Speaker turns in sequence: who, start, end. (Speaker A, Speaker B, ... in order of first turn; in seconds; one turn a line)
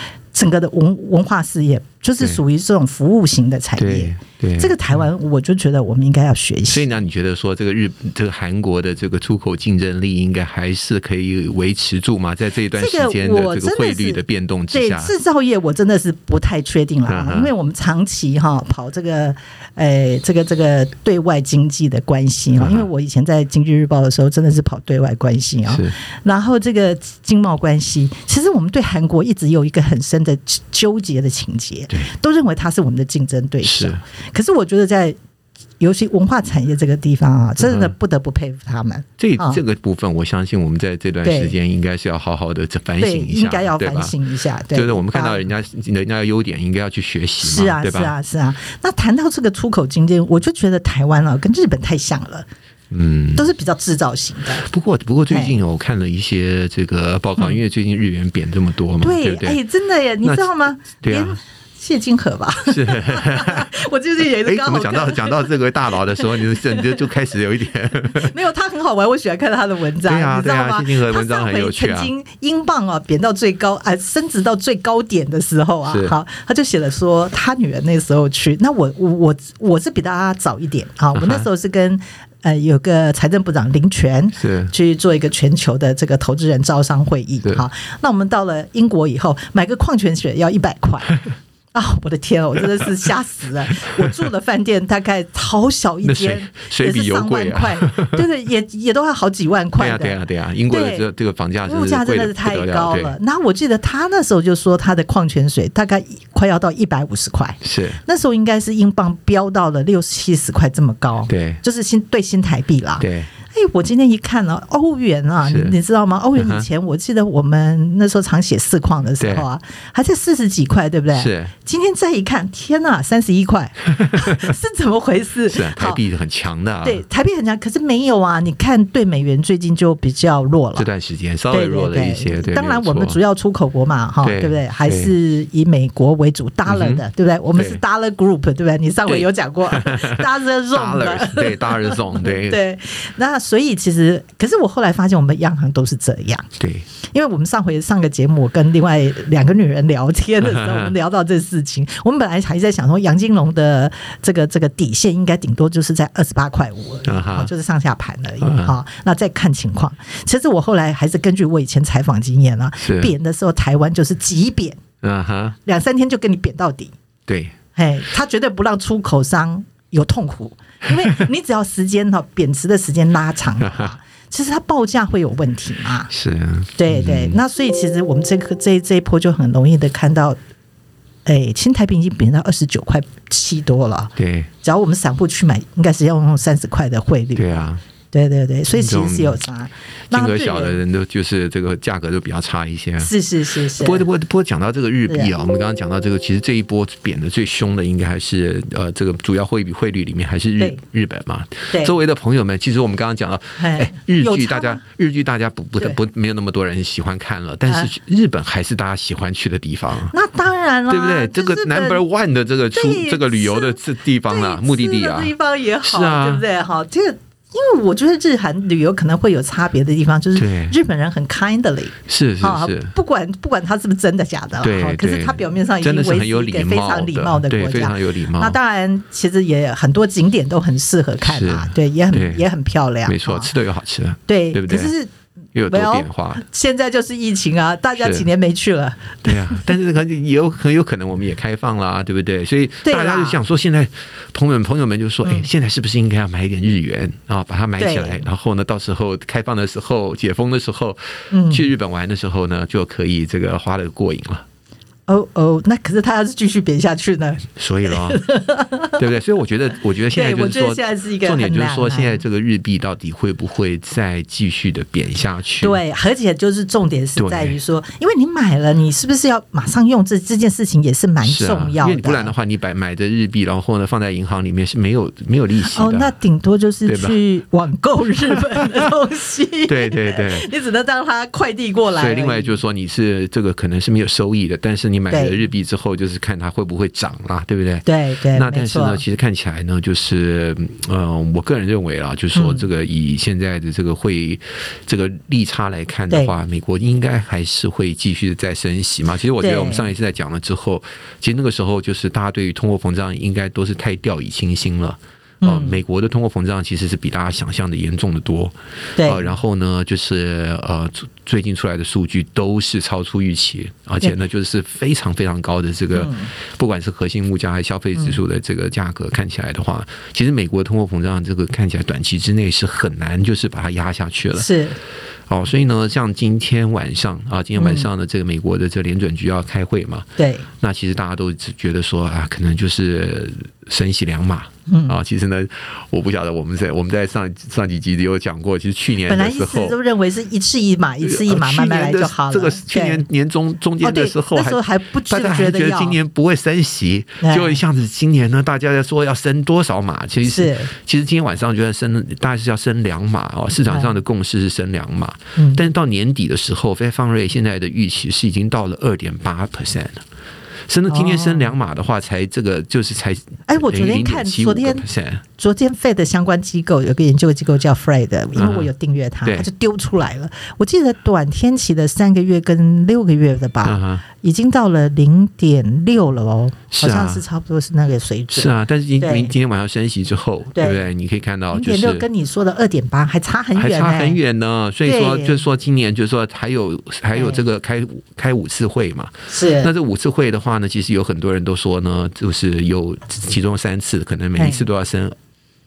Speaker A: 0.3-6.9
Speaker B: 3.8-5.0
Speaker B: 6.7-15.1
Speaker A: 12.8-14.2
Speaker A: 14.7-35.2
Speaker B: 17.1-17.5
Speaker B: 22.6-22.9
Speaker B: 25.7-25.9
Speaker B: 33.6-34.0
Speaker A: 35.8-39.6
Speaker B: 37.6-37.9
Speaker B: 39.2-44.1
Speaker A: 41.2-41.5
Speaker A: 43.0-45.4
Speaker B: 44.7-48.1
Speaker A: 47.4-52.5
Speaker B: 52.9-53.5
Speaker A: 53.4-54.7
Speaker B: 54.6-59.6
Speaker A: 55.3-55.5
Speaker A: 59.0-65.5
Speaker B: 61.0-61.4
Speaker B: 62.7-63.7
Speaker B: 64.4-68.3
Speaker A: 68.2-91.2
Speaker B: 70.1-72.1
Speaker B: 75.9-76.2
Speaker B: 81.2-81.5
Speaker B: 84.4-84.7
Speaker A: 91.7-100.2
Speaker B: 96.0-98.2
Speaker B: 99.8-103.2
Speaker A: 100.7-101.0
Speaker A: 101.7-126.0
Speaker B: 107.6-108.0
Speaker B: 111.3-111.6
Speaker B: 113.0-113.3
Speaker B: 115.4-115.8
Speaker B: 116.4-116.7
Speaker B: 119.2-119.5
Speaker B: 121.2-121.5
Speaker B: 124.0-124.5
Speaker B: 125.5-127.0
Speaker A: 126.8-130.9
Speaker B: 130.8-133.2
Speaker A: 131.5-146.5
Speaker B: 134.2-135.1
Speaker B: 136.7-137.0
Speaker B: 137.6-137.8
Speaker B: 139.1-142.6
Speaker B: 146.6-146.9
Speaker A: 147.1-164.8
Speaker B: 150.4-150.9
Speaker B: 157.1-157.5
Speaker B: 158.4-158.7
Speaker B: 162.8-163.1
Speaker B: 165.0-165.6
Speaker A: 165.7-166.9
Speaker B: 167.3-167.6
Speaker A: 167.8-176.1
Speaker B: 173.6-173.9
Speaker B: 176.1-177.4
Speaker A: 176.8-180.4
Speaker A: 181.3-187.5
Speaker B: 184.2-184.5
Speaker B: 187.3-187.8
Speaker A: 188.1-190.8
Speaker B: 188.7-189.4
Speaker B: 190.1-193.1
Speaker A: 193.0-194.1
Speaker B: 193.8-210.2
Speaker A: 203.6-204.8
Speaker A: 210.1-212.0
Speaker B: 210.9-216.4
Speaker A: 212.7-233.5
Speaker B: 220.3-220.8
Speaker B: 222.1-222.9
Speaker B: 224.6-228.6
Speaker B: 231.2-232.4
Speaker B: 233.1-234.9
Speaker A: 234.3-235.1
Speaker B: 235.6-236.4
Speaker A: 235.7-239.3
Speaker B: 238.0-238.3
Speaker B: 239.2-254.4
Speaker A: 242.8-243.4
Speaker A: 247.8-248.2
Speaker A: 251.3-251.7
Speaker A: 255.1-259.0
Speaker B: 257.6-258.2
Speaker B: 259.0-265.8
Speaker A: 260.1-262.2
Speaker A: 265.6-272.3
Speaker B: 267.2-267.6
Speaker B: 271.2-276.1
Speaker A: 275.7-282.6
Speaker B: 276.9-277.2
Speaker B: 279.7-280.5
Speaker B: 282.0-324.5
Speaker A: 285.1-285.4
Speaker A: 287.9-289.0
Speaker A: 292.4-292.7
Speaker A: 299.4-299.9
Speaker A: 305.4-305.8
Speaker A: 309.0-309.3
Speaker A: 315.9-316.3
Speaker A: 324.4-324.8
Speaker B: 325.3-330.1
Speaker A: 327.6-327.9
Speaker A: 330.2-330.5
Speaker B: 330.6-339.8
Speaker A: 334.7-335.0
Speaker A: 339.1-343.0
Speaker B: 341.0-360.0
Speaker A: 343.8-346.0
Speaker A: 347.2-347.6
Speaker A: 350.3-350.7
Speaker A: 353.7-353.9
Speaker A: 355.4-355.6
Speaker B: 360.7-365.2
Speaker A: 360.9-361.5
Speaker A: 363.5-364.9
Speaker A: 365.4-379.3
Speaker B: 368.4-368.7
Speaker B: 373.6-374.0
Speaker B: 376.7-377.2
Speaker B: 378.3-382.1
Speaker A: 380.6-380.8
Speaker A: 381.5-384.2
Speaker B: 383.6-395.2
Speaker A: 384.9-385.4
Speaker A: 387.1-387.4
Speaker A: 389.3-389.7
Speaker A: 394.4-394.7